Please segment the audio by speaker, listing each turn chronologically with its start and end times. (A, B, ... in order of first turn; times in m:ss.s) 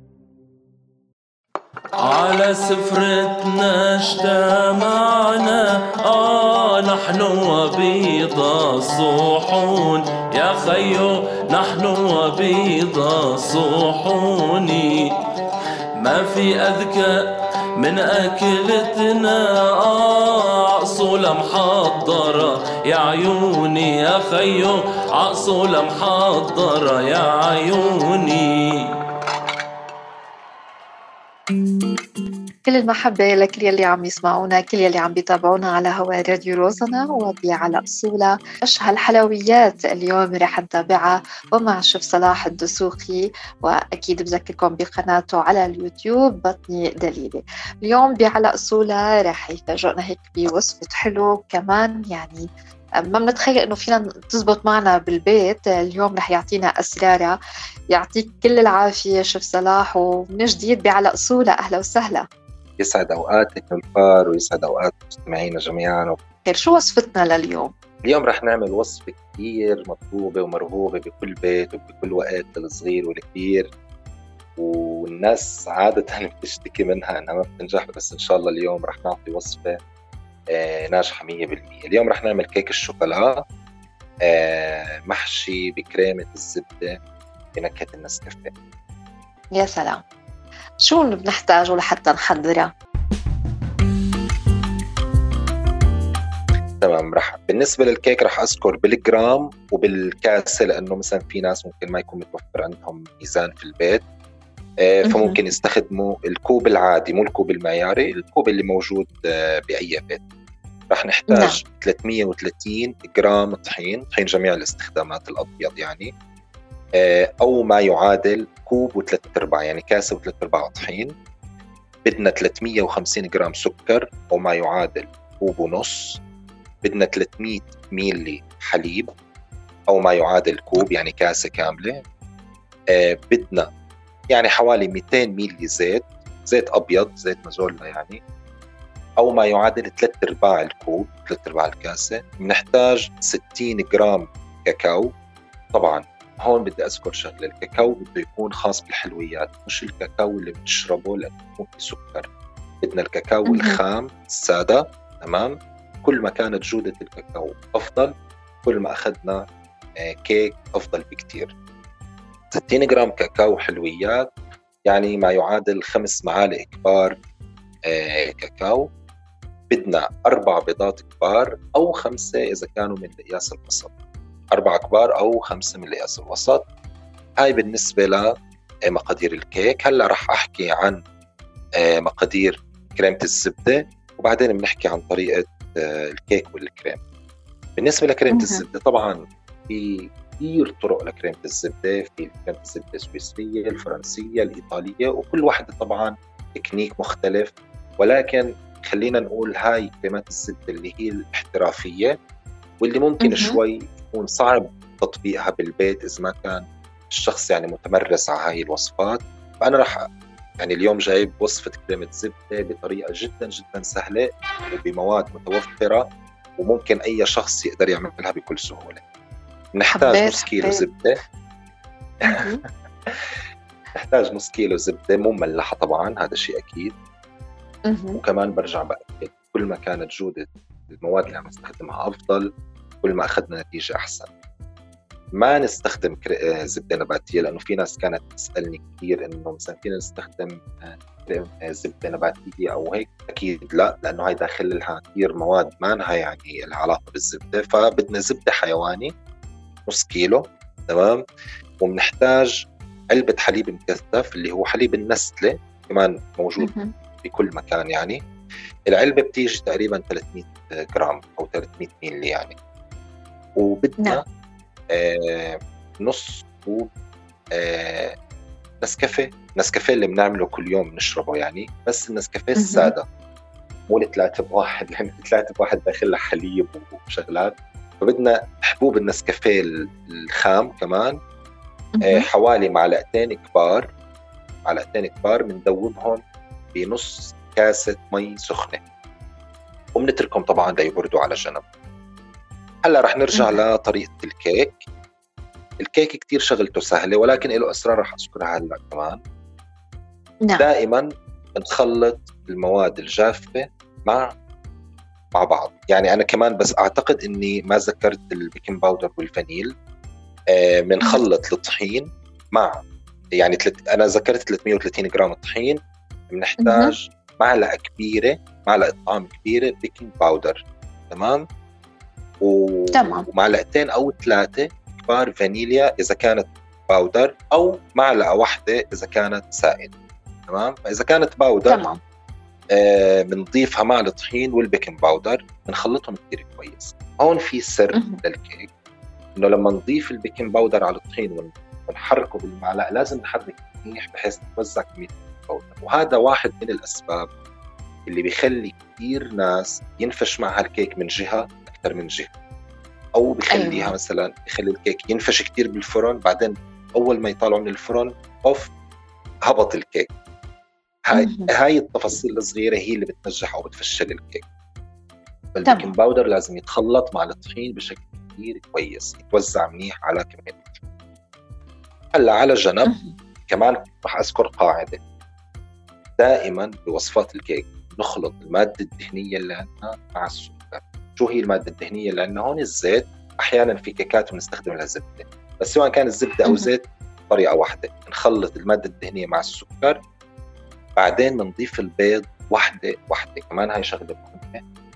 0:02.0-0:15.1 A
0:16.0-0:28.9 A
0:32.7-0:52.5 B
0:53.1-0:57.4 B
0:57.9-1:02.2 B
1:02.8-1:06.2 C
1:06.5-1:07.7 B
1:08.1-1:13.7 C
1:14.6-1:19.8 C
1:20.5-1:23.4 C
1:24.2-1:27.0 C
1:27.6-1:28.5 C
1:29.5-1:30.0 B
1:30.8-1:32.7 B
1:36.8-1:44.0 C
1:44.8-1:50.2 C
1:45.1-1:45.4 B
1:50.9-1:56.1 C
1:51.3-1:51.6 B
1:57.0-2:01.1 C
2:02.1-2:06.2 C
2:06.8-2:09.1 C
2:09.9-2:12.0 C
2:12.9-2:13.7 C
2:14.3-2:18.2 C
2:19.2-2:25.1 C
2:25.7-2:32.3 C
2:32.8-2:38.1 C
2:33.5-2:33.8 B
2:38.6-2:39.4 C
2:40.0-2:41.5 C
2:42.5-2:44.3 C
2:44.9-2:47.2 C
2:47.9-2:48.9 C
2:49.7-2:53.9 C
2:54.5-2:56.7 C
2:57.4-2:58.3 C
2:58.9-3:01.0 C
3:01.8-3:07.0 C
3:07.8-3:22.1 C
3:08.3-3:08.6 B
3:22.8-3:30.0 C
3:23.2-3:23.6 B
3:30.6-3:36.1 C
3:36.6-3:39.0 C
3:39.8-3:41.2 C
3:39.9-3:40.9 B
3:42.2-3:42.6 B
3:42.3-3:42.5 C
3:44.0-3:46.9 C
3:47.9-3:48.2 B
3:48.2-3:52.5 C
3:53.0-3:54.3 C
3:55.4-4:09.1 C
4:09.9-4:11.2 C
4:11.8-4:12.6 C
4:13.1-4:16.7 C
4:16.6-4:16.9 B
4:17.2-4:18.2 C
4:18.9-4:22.6 C
4:23.6-4:24.2 C
4:24.9-4:26.9 C
4:27.5-4:28.1 C
4:28.8-4:33.0 C
4:32.6-4:32.9 B
4:33.9-4:41.2 C
4:42.0-4:42.3 B
4:42.0-4:43.9 C
4:44.7-4:46.2 C
4:46.7-4:48.8 C
4:50.0-4:51.6 C
4:52.8-4:54.8 C
4:53.3-4:53.6 B
4:55.8-4:59.2 C
5:00.6-5:04.3 C
5:05.4-5:09.7 C
5:10.5-5:12.8 C
5:13.4-5:15.8 C
5:16.3-5:21.4 C
5:16.6-5:17.0 B
5:22.4-5:29.9 C
5:22.9-5:23.3 B
5:30.5-5:31.8 C
5:31.7-5:32.0 B
5:32.7-5:38.7 C
5:37.9-5:38.2 B
5:39.4-5:47.3 C
5:48.1-5:52.3 C
5:53.2-5:58.7 C
5:53.5-5:54.0 B
5:59.5-6:00.1 C
6:01.1-6:04.4 C
6:01.1-6:01.5 B
6:05.5-6:10.8 C
6:05.6-6:05.9 B
6:12.2-6:12.9 C
6:12.9-6:13.2 B
6:13.5-6:15.0 C
6:16.2-6:30.0 C
6:31.0-6:34.6 C